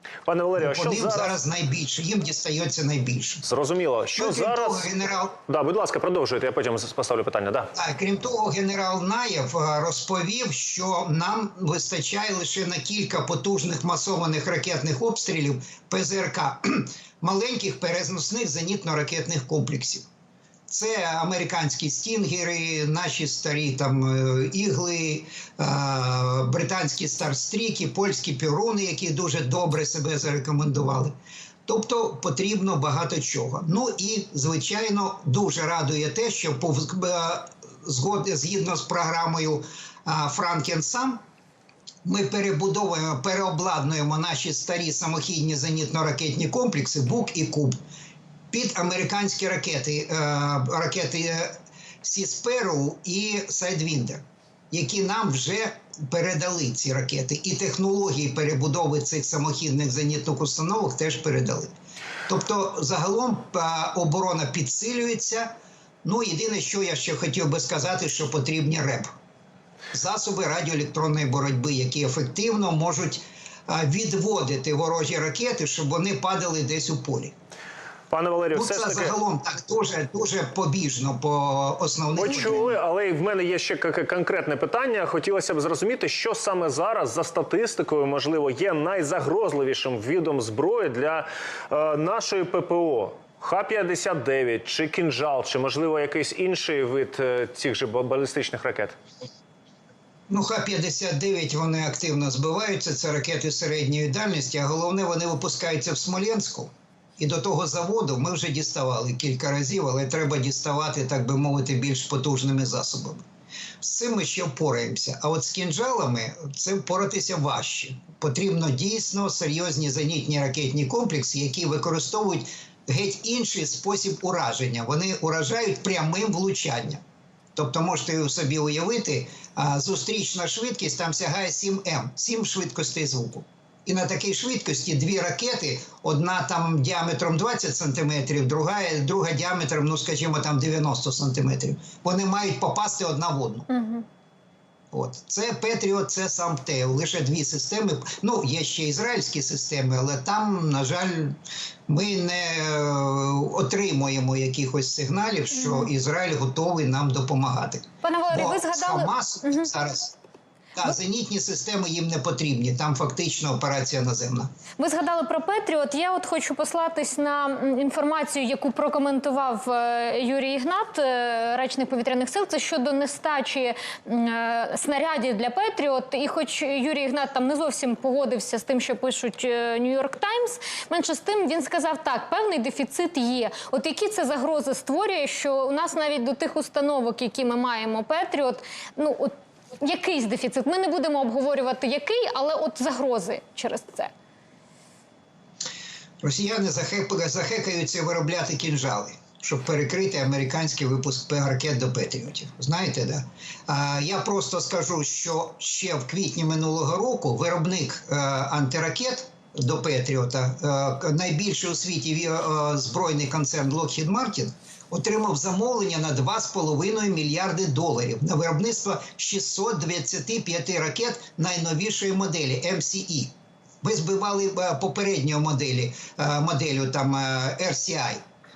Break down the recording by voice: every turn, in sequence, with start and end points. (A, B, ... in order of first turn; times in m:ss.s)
0:00.3-0:01.4 A
0:00.6-0:03.4 B
0:03.4-0:04.9 A
0:04.2-0:05.4 B
0:05.5-0:07.7 A
0:07.8-0:20.1 B
0:20.7-0:31.2 B
0:31.7-0:41.2 B
0:42.0-0:47.8 B
0:48.5-1:01.7 B
1:02.3-1:05.5 B
1:06.0-1:09.1 B
1:09.9-1:17.4 B
1:18.1-1:19.1 A
1:18.5-1:22.8 B
1:22.2-1:39.0 A
1:40.3-1:53.2 B
1:53.8-2:07.0 B
2:07.6-2:23.7 B
2:23.7-2:24.0 C
2:24.9-2:40.1 B
2:35.5-2:35.9 C
2:38.0-2:39.7 C
2:40.8-2:44.5 B
2:44.8-3:14.1 C
3:16.2-3:48.2 B